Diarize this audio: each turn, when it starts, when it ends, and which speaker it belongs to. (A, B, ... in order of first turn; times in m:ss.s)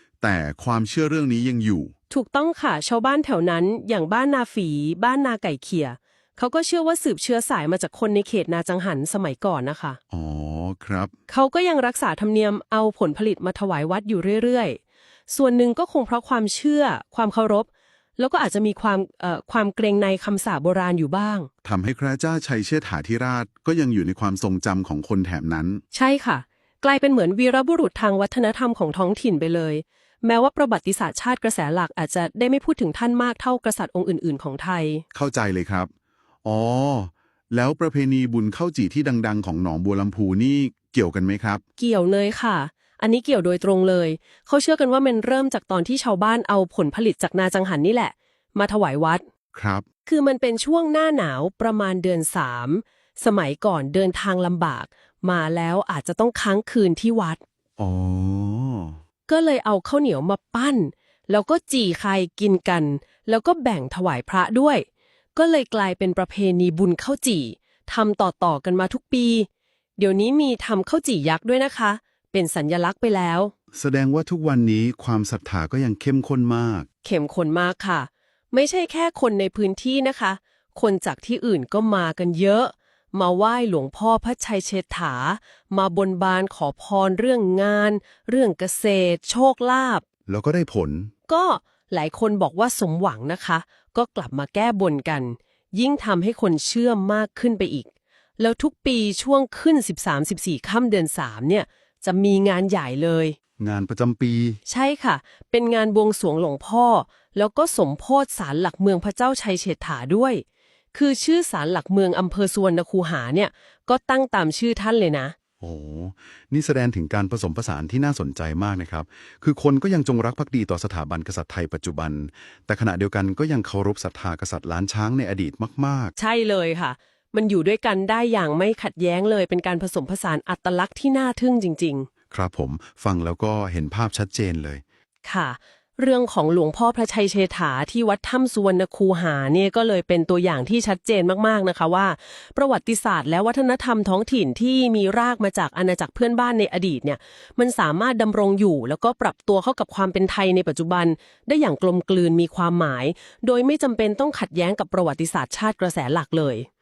0:00.2-0:01.9 A
0:02.1-0:10.0 B
0:10.1-0:11.1 A
0:11.3-0:21.5 B
0:21.6-0:25.8 A
0:25.9-0:35.0 B
0:35.1-0:35.9 A
0:36.4-0:41.6 A
0:41.8-0:49.2 B
0:49.5-0:49.8 A
0:50.0-0:57.4 B
0:57.8-0:59.0 A
0:59.3-1:13.5 B
1:13.7-1:16.9 A
1:17.0-1:30.0 B
1:30.3-1:31.1 A
1:31.3-1:37.9 B
1:38.4-1:43.4 B
1:43.6-1:44.6 A
1:44.7-1:55.3 B
1:55.6-2:06.1 A
2:06.2-2:12.1 B
2:12.3-2:14.8 A
2:15.2-2:36.7 B